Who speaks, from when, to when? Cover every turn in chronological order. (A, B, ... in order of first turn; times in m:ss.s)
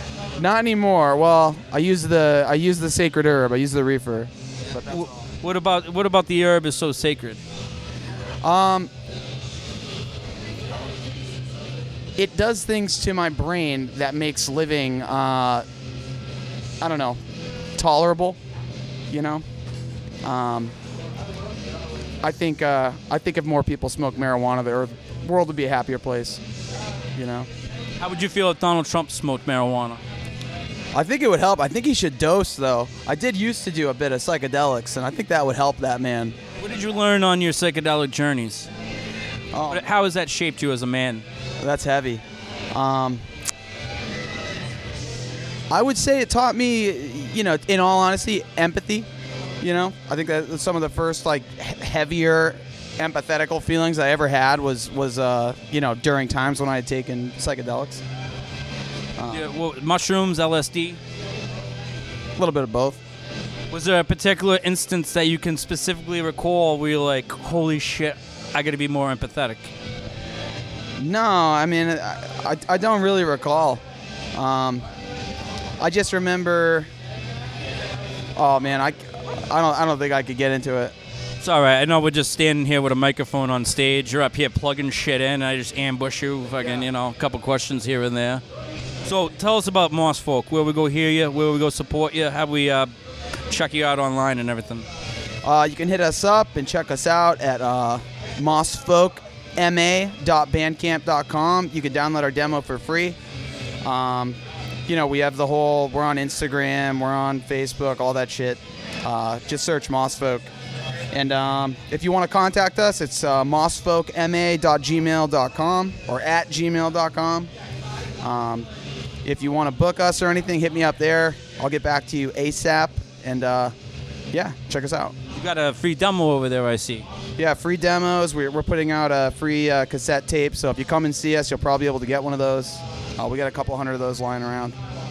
0:00.4-0:05.1 A
0:04.9-0:07.4 B
0:08.4-0:08.9 A
0:12.2-0:15.6 A
0:16.8-0:17.2 A
0:17.8-0:18.4 A
0:19.1-0:19.4 A
0:20.2-0:20.7 A
0:22.2-0:26.4 A
0:27.2-0:27.5 A
0:28.0-0:30.0 B
0:30.9-0:36.4 A
0:36.6-0:38.7 B
0:39.5-0:39.8 A
0:39.7-0:41.2 B
0:41.6-0:42.2 A
0:42.7-0:43.2 A
0:45.7-0:49.1 A
0:49.6-0:58.0 A
0:59.2-0:59.5 A
0:59.3-1:01.0 B
1:02.4-1:03.0 A
1:03.7-1:09.7 B
1:11.0-1:13.8 A
1:14.3-1:14.8 A
1:15.8-1:16.9 A
1:18.4-1:20.9 A
1:21.4-1:28.4 B
1:29.0-1:32.9 B
1:33.5-1:34.8 B
1:35.4-1:43.2 A
1:43.8-1:50.5 A
1:51.1-1:57.5 A
1:58.2-1:58.7 A
1:59.2-2:03.7 A
2:04.3-2:05.1 A
2:05.3-2:07.0 B
2:07.4-2:14.8 A